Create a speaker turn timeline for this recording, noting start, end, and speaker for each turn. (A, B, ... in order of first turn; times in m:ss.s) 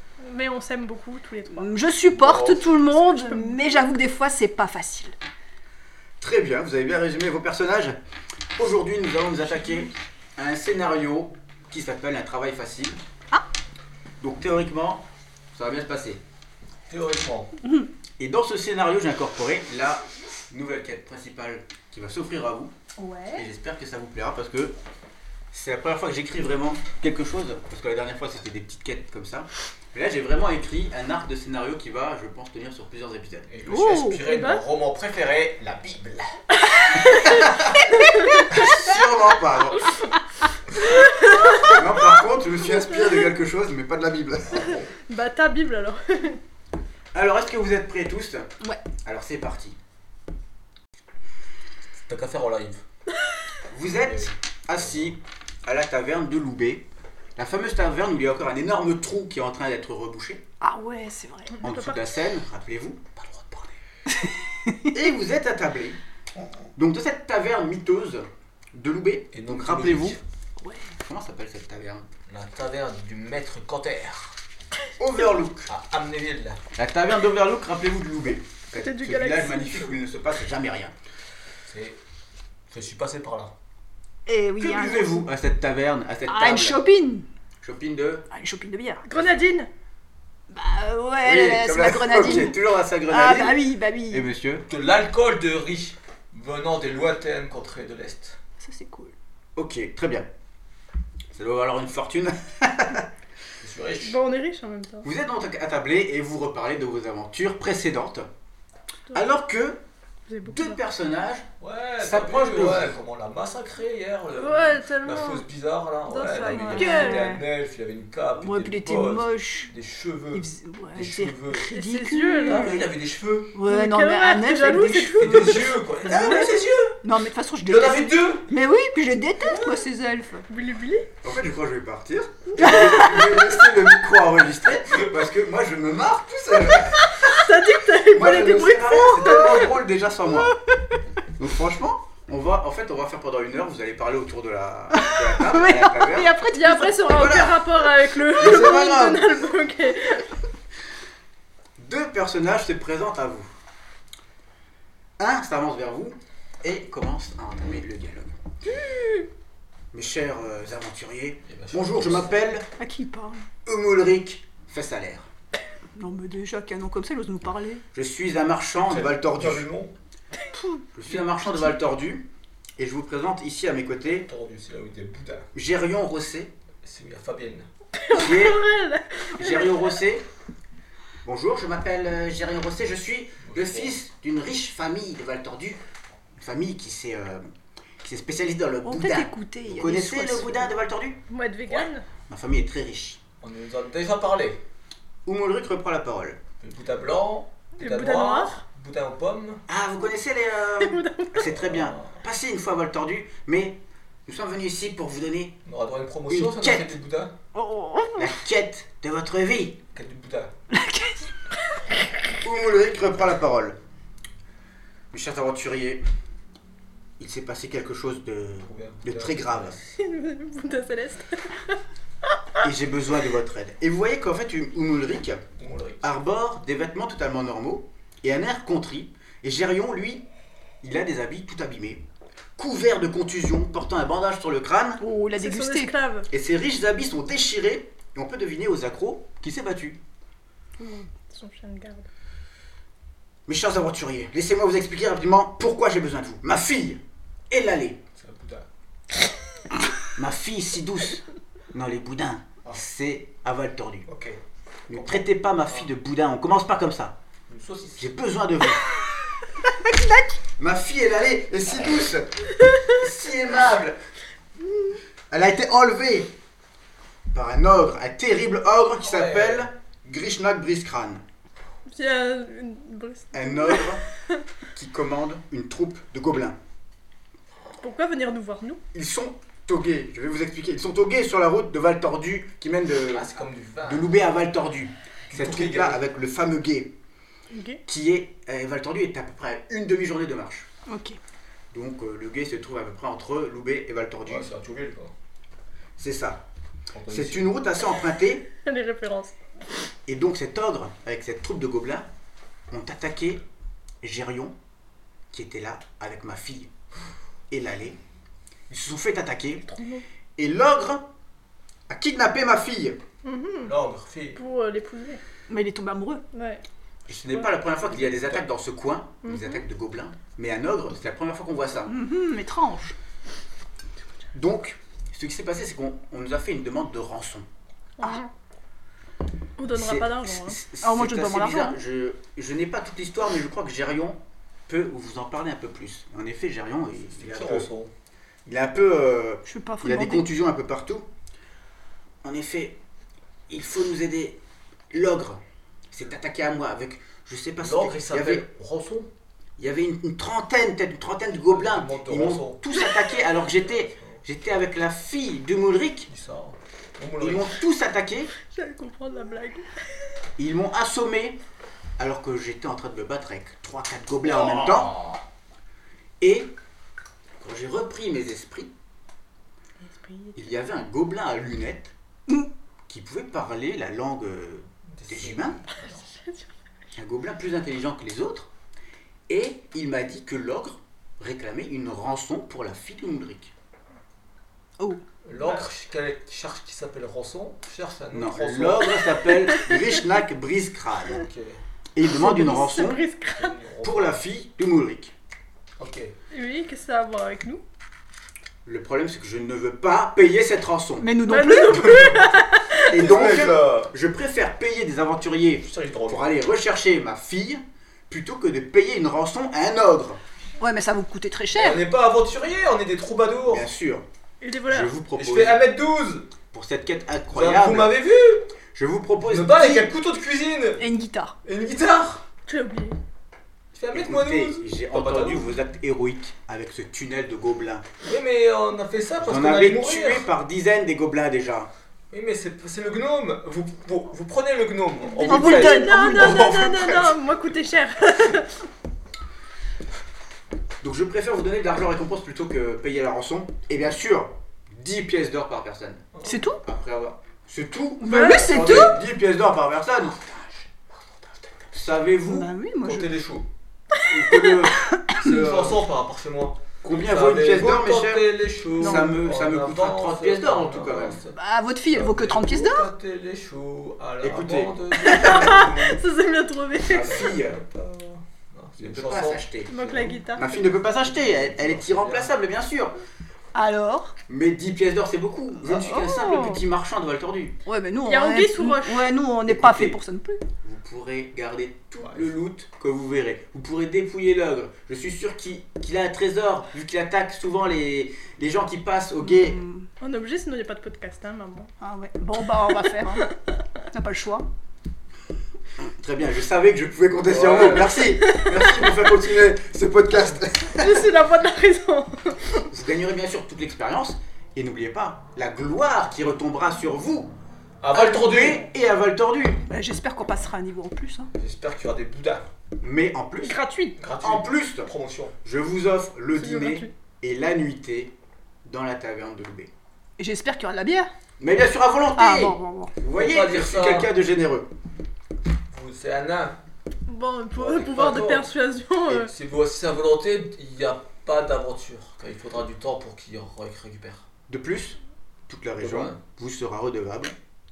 0:00.2-0:01.9 A
0:01.5-0:05.2 B
0:02.1-0:02.7 C
0:02.9-0:03.8 A
0:06.2-0:08.0 D
0:08.6-0:13.0 D
0:14.2-0:16.2 D
0:16.9-0:17.5 C
0:18.2-0:22.7 D
0:23.0-0:23.4 B
0:23.3-0:24.8 D
0:25.5-0:33.6 D
0:33.5-0:36.4 C
0:33.7-0:34.2 B
0:34.2-0:34.6 A
0:36.6-0:37.4 A
0:37.0-0:37.9 D
0:37.3-0:39.0 B
0:38.0-0:38.4 A
0:38.5-0:39.9 D
0:40.8-0:41.9 A
0:41.4-0:41.8 B
0:41.6-0:44.8 D
0:42.6-0:43.3 A
0:44.5-0:44.9 C
0:45.0-0:46.4 A
0:47.1-0:48.5 D
0:49.0-0:49.8 D
0:52.1-0:52.8 C
0:53.7-0:56.9 D
0:53.9-0:55.1 C
0:57.4-1:00.4 D
1:00.6-1:01.6 B
1:01.5-1:02.1 A
1:01.6-1:03.1 D
1:03.2-1:03.7 C
1:04.2-1:04.8 B
1:04.9-1:06.0 D
1:06.8-1:10.2 D
1:09.3-1:10.2 C
1:10.6-1:10.9 B
1:11.0-1:12.1 D
1:12.3-1:14.4 C
1:15.0-1:15.7 D
1:15.7-1:16.6 C
1:16.8-1:21.0 D
1:18.7-1:19.9 A
1:21.7-1:22.0 C
1:22.7-1:23.5 C
1:24.3-1:25.3 B
1:24.6-1:26.8 D
1:26.3-1:27.3 B
1:27.6-1:28.3 D
1:28.3-1:29.1 B
1:29.1-1:29.7 A
1:30.5-1:34.2 B
1:31.2-1:34.6 D
1:34.7-1:38.4 C
1:38.6-1:39.1 B
1:39.6-1:40.3 D
1:41.3-1:43.1 D
1:43.6-1:44.2 C
1:44.0-1:45.1 A
1:45.0-1:48.3 D
1:49.1-1:49.8 D
1:50.3-1:50.8 A
1:50.4-1:51.5 D
1:51.6-2:01.7 C
1:52.0-1:53.0 D
1:54.4-1:55.4 A
1:56.1-1:57.3 A
1:56.6-1:57.4 B
1:58.4-1:59.7 B
2:00.3-2:02.9 B
2:01.7-2:02.9 A
2:02.4-2:03.6 C
2:03.5-2:10.4 B
2:03.7-2:06.5 A
2:05.2-2:07.0 C
2:07.6-2:08.5 C
2:09.4-2:09.8 C
2:10.5-2:11.1 A
2:11.2-2:17.3 D
2:12.6-2:13.7 B
2:17.0-2:19.6 A
2:18.1-2:20.6 D
2:18.9-2:19.6 B
2:21.4-2:26.3 D
2:24.9-2:27.1 B
2:26.5-2:30.3 A
2:27.0-2:27.6 D
2:28.3-2:29.3 D
2:31.8-2:33.5 D
2:35.2-2:38.4 D
2:39.9-2:42.7 D
2:41.5-2:42.4 C
2:42.8-2:43.5 B
2:43.7-2:45.3 D
2:46.0-2:47.8 B
2:47.9-2:49.7 D
2:48.8-2:50.0 C
2:50.5-2:51.8 B
2:51.0-2:54.3 D
2:54.2-2:55.5 C
2:55.5-2:56.5 D
2:56.8-2:57.7 C
2:58.0-2:59.8 A
2:58.1-2:58.6 D
2:59.4-3:00.2 D
3:01.2-3:05.8 D
3:03.4-3:04.0 C
3:06.4-3:07.5 D
3:08.0-3:11.2 D
3:08.8-3:10.7 B
3:11.3-3:12.1 A
3:12.3-3:13.2 D
3:13.4-3:14.6 C
3:15.3-3:16.4 D
3:16.6-3:19.6 C
3:17.8-3:18.6 A
3:19.7-3:25.6 D
3:20.8-3:21.5 A
3:21.5-3:22.2 C
3:25.6-3:27.3 C
3:26.3-3:27.0 D
3:27.6-3:28.3 B
3:28.2-3:29.8 D
3:29.9-3:30.5 C
3:30.7-3:31.3 B
3:32.4-3:33.8 D
3:35.1-3:36.0 D
3:37.2-3:39.8 D
3:38.6-3:39.7 C
3:39.9-3:41.8 A
3:42.6-3:45.4 D
3:45.6-3:46.0 C
3:46.0-3:50.2 D
3:50.8-3:52.0 D
3:52.6-3:55.0 D
3:55.0-3:55.9 B
3:55.3-3:56.3 A
3:56.3-4:00.0 D
4:00.8-4:01.1 B
4:01.3-4:02.1 A
4:03.5-4:08.0 D
4:08.2-4:08.7 C
4:10.2-4:14.1 D
4:14.1-4:14.4 C
4:14.9-4:17.2 D
4:14.9-4:15.8 C
4:17.5-4:18.2 C
4:18.0-4:18.9 D
4:19.6-4:20.4 B
4:20.6-4:24.0 D
4:24.8-4:26.4 D
4:27.3-4:31.2 D
4:29.0-4:29.7 C
4:31.9-4:34.0 A
4:33.3-4:34.0 D
4:34.7-4:36.6 D
4:37.8-4:38.8 A
4:38.9-4:43.3 D
4:43.1-4:44.1 C
4:43.8-4:47.0 D
4:45.3-4:46.0 C
4:47.5-4:47.8 A
4:47.9-4:50.7 D
4:50.9-4:51.2 B
4:51.7-4:54.5 D
4:54.3-4:55.1 C
4:56.0-4:56.4 D
4:56.9-4:57.5 C
4:57.1-4:58.5 D
4:58.6-4:59.4 A
5:00.1-5:02.1 D
5:02.7-5:03.5 D
5:04.0-5:04.6 D
5:05.3-5:06.7 D
5:07.5-5:08.0 D
5:08.7-5:09.7 D
5:09.7-5:10.0 A
5:10.4-5:11.1 D
5:11.9-5:13.0 D
5:13.2-5:13.7 A
5:13.6-5:14.4 C
5:14.4-5:15.2 A
5:15.5-5:16.2 B
5:16.3-5:16.6 A
5:17.1-5:22.0 D
5:17.9-5:18.4 C
5:19.2-5:19.6 A
5:21.9-5:23.0 B
5:24.3-5:27.5 D
5:28.0-5:28.3 A
5:29.6-5:30.6 A
5:29.7-5:37.7 D
5:30.8-5:31.8 B
5:37.1-5:37.9 C
5:38.5-5:41.1 D
5:39.5-5:40.3 B
5:42.2-5:42.8 D
5:43.5-5:44.4 D
5:44.9-5:48.5 D
5:47.6-5:49.1 C
5:49.6-5:56.1 D
5:51.5-5:52.6 C
5:53.8-5:54.2 C
5:56.1-5:57.6 C
5:57.2-5:58.3 D
5:58.4-5:59.7 A
6:00.4-6:01.4 D
6:02.0-6:05.0 D
6:04.4-6:05.2 C
6:06.2-6:06.5 D
6:07.4-6:08.7 D
6:09.8-6:10.4 A
6:10.4-6:11.9 D
6:12.9-6:15.6 D
6:14.9-6:16.1 C
6:15.8-6:16.5 A
6:17.0-6:18.5 D
6:19.3-6:23.5 D
6:25.2-6:29.0 C
6:28.1-6:31.3 D
6:29.3-6:29.9 A
6:31.1-6:31.6 C
6:31.9-6:33.0 D
6:32.0-6:33.6 A
6:33.4-6:34.2 C
6:33.8-6:35.1 D
6:35.8-6:36.1 C
6:36.3-6:37.6 A
6:38.6-6:41.1 D
6:41.0-6:42.4 B
6:41.3-6:43.2 A
6:42.9-6:50.2 D
6:42.9-6:43.9 C
6:45.6-6:46.3 C
6:50.6-6:51.8 B
6:51.6-6:53.7 C
6:53.5-6:54.1 D
6:54.4-6:55.0 A
6:54.7-6:55.6 D
6:55.2-6:56.3 C
6:56.5-6:58.0 D
6:57.3-6:58.5 C
6:58.7-6:59.9 D
6:59.2-7:00.9 C
7:00.8-7:01.4 B
7:01.4-7:02.2 C
7:02.5-7:03.0 A
7:03.8-7:05.5 C
7:03.9-7:07.8 D
7:08.0-7:10.3 C
7:09.2-7:11.7 D
7:12.1-7:16.0 C
7:15.2-7:18.6 A
7:15.2-7:16.5 B
7:16.1-7:17.1 D
7:20.8-7:26.1 D
7:26.1-7:26.5 C
7:26.2-7:26.6 B
7:26.6-7:30.2 D
7:28.0-7:29.0 B
7:28.4-7:29.0 C
7:30.2-7:31.8 C
7:31.7-7:32.5 D
7:32.2-7:33.1 B
7:32.8-7:33.5 C
7:34.0-7:35.8 D
7:34.8-7:35.3 B
7:35.2-7:41.4 C
7:36.8-7:41.2 D
7:38.8-7:39.1 B
7:41.3-7:42.9 B
7:41.9-7:46.0 C
7:44.2-7:44.8 D
7:45.0-7:47.3 A
7:46.9-7:47.6 D
7:46.9-7:50.2 C
7:48.8-7:49.7 D
7:49.7-7:50.7 A
7:50.4-7:53.0 D
7:51.0-7:52.3 C
7:53.5-7:54.2 B
7:54.3-7:57.6 D
7:55.6-7:56.6 B
7:57.7-8:00.4 B
7:58.1-7:59.1 A
7:59.5-8:00.0 D
8:00.6-8:09.6 D
8:02.0-8:02.3 C
8:09.2-8:09.9 B
8:10.0-8:11.7 A
8:11.8-8:13.3 B
8:12.7-8:13.3 A
8:13.9-8:14.5 B
8:15.8-8:21.1 D
8:17.3-8:18.0 C
8:18.0-8:19.0 A
8:20.8-8:22.6 A
8:22.7-8:27.3 D
8:27.8-8:28.7 C
8:27.9-8:29.6 D
8:29.7-8:31.3 B
8:31.4-8:32.5 C
8:32.8-8:33.6 D
8:33.4-8:34.0 A
8:34.0-8:35.4 C
8:34.2-8:34.9 D
8:35.4-8:39.7 D
8:36.4-8:36.9 A
8:40.2-8:41.1 B
8:41.4-8:44.7 D
8:42.2-8:42.9 B
8:43.0-8:44.1 C
8:45.7-8:46.6 C
8:47.1-8:49.3 A
8:47.5-8:48.5 C
8:49.1-8:54.3 C
8:54.5-8:57.4 D
8:55.8-8:56.2 C